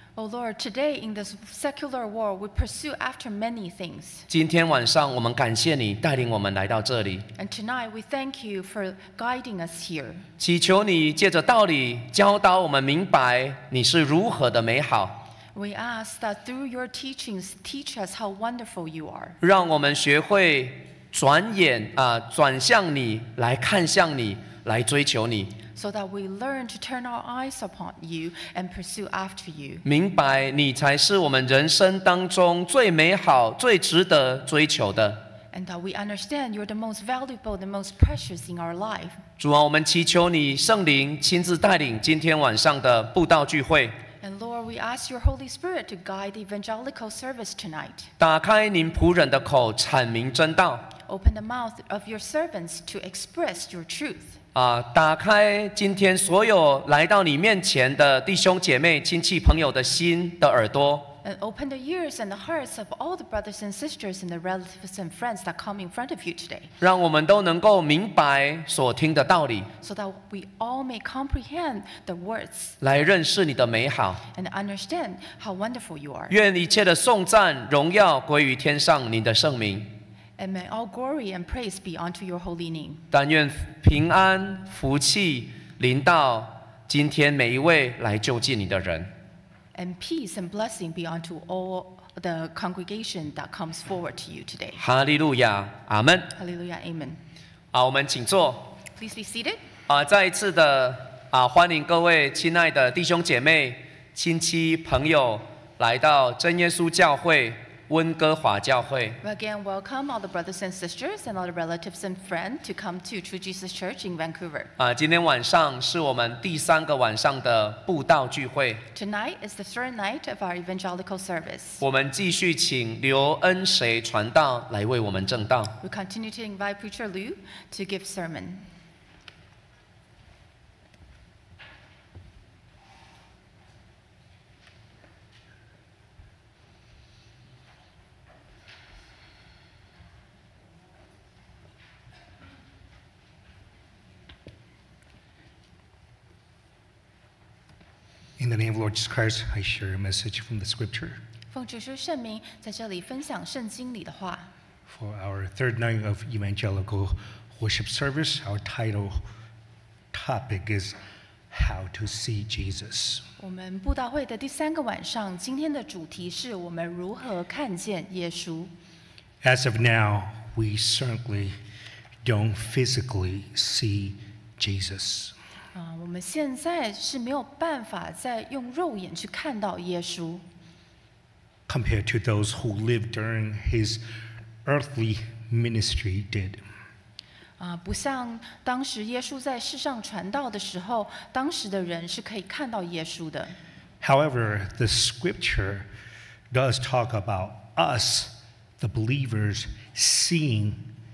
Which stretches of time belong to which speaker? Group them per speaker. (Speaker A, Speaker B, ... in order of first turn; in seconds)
Speaker A: 0.1-4.2, 7.4-10.2, 15.5-19.4, 25.7-29.8, 35.5-39.2, 44.2-48.1, 51.1-54.4, 61.2-66.7, 69.8-72.8, 74.3-76.3, 80.4-83.0, 89.7-94.8, 96.3-97.2, 99.0-99.6, 109.2-114.7, 118.9-121.8, 125.8-128.6, 151.5-154.5, 163.4-168.7, 175.7-180.4, 187.6-193.5
Speaker B: 4.3-7.2, 10.4-15.2, 19.4-25.5, 29.8-35.2, 39.4-44.0, 48.2-50.9, 54.5-61.1, 66.8-69.7, 72.8-74.2, 76.3-79.9, 83.1-89.1, 94.8-96.3, 97.7-98.7, 99.9-109.2, 114.8-118.8, 121.8-125.7
Speaker C: 148.4-151.2, 154.9-159.2, 160.1-161.0, 161.5-163.2, 169.4-171.6, 172.2-175.3, 181.7-184.0, 184.6-186.6, 194.0-195.9, 196.5-200.9